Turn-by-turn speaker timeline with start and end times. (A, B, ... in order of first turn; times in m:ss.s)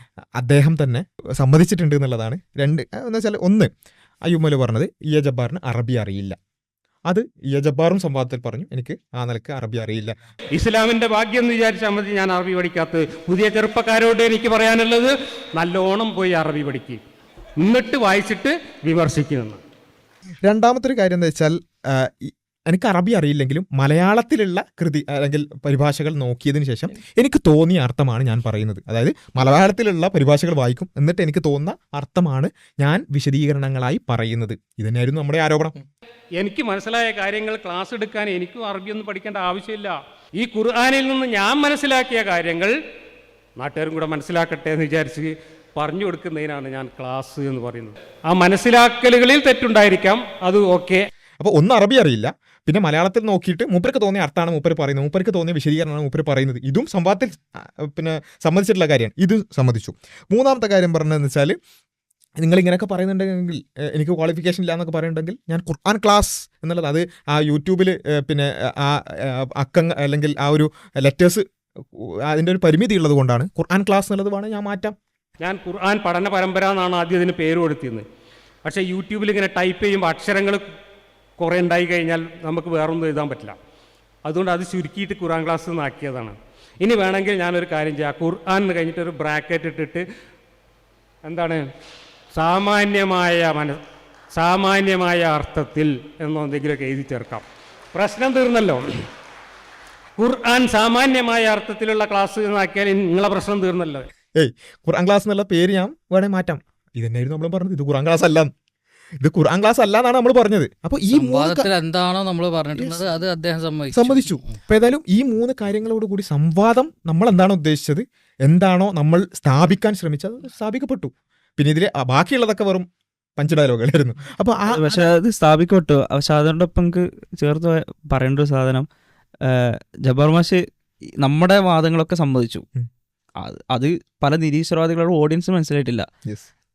0:00.4-0:03.7 A
0:04.2-0:06.4 A
0:07.1-0:10.2 A
0:10.5-0:17.0 B
0:17.6-0:19.6 B
0:20.4-0:35.8 A
0:36.4-0:42.7 B
0:43.6-0:51.1 B
0:51.4-1:01.6 A
1:02.4-1:14.9 A
1:15.4-1:18.0 B
1:18.6-1:20.6 B
1:21.4-1:23.6 B
1:24.2-1:30.0 B
1:31.2-1:31.6 B
1:32.3-1:33.8 B
1:34.3-1:38.8 B
1:40.2-1:44.1 B
1:44.4-1:48.5 A
1:49.2-1:51.7 A
1:51.1-1:54.3 C
1:52.8-1:53.0 A
1:53.9-2:02.9 A
2:03.4-2:05.0 A
2:04.7-2:08.9 D
2:09.4-2:10.6 D
2:11.2-2:12.6 D
2:13.4-2:16.1 D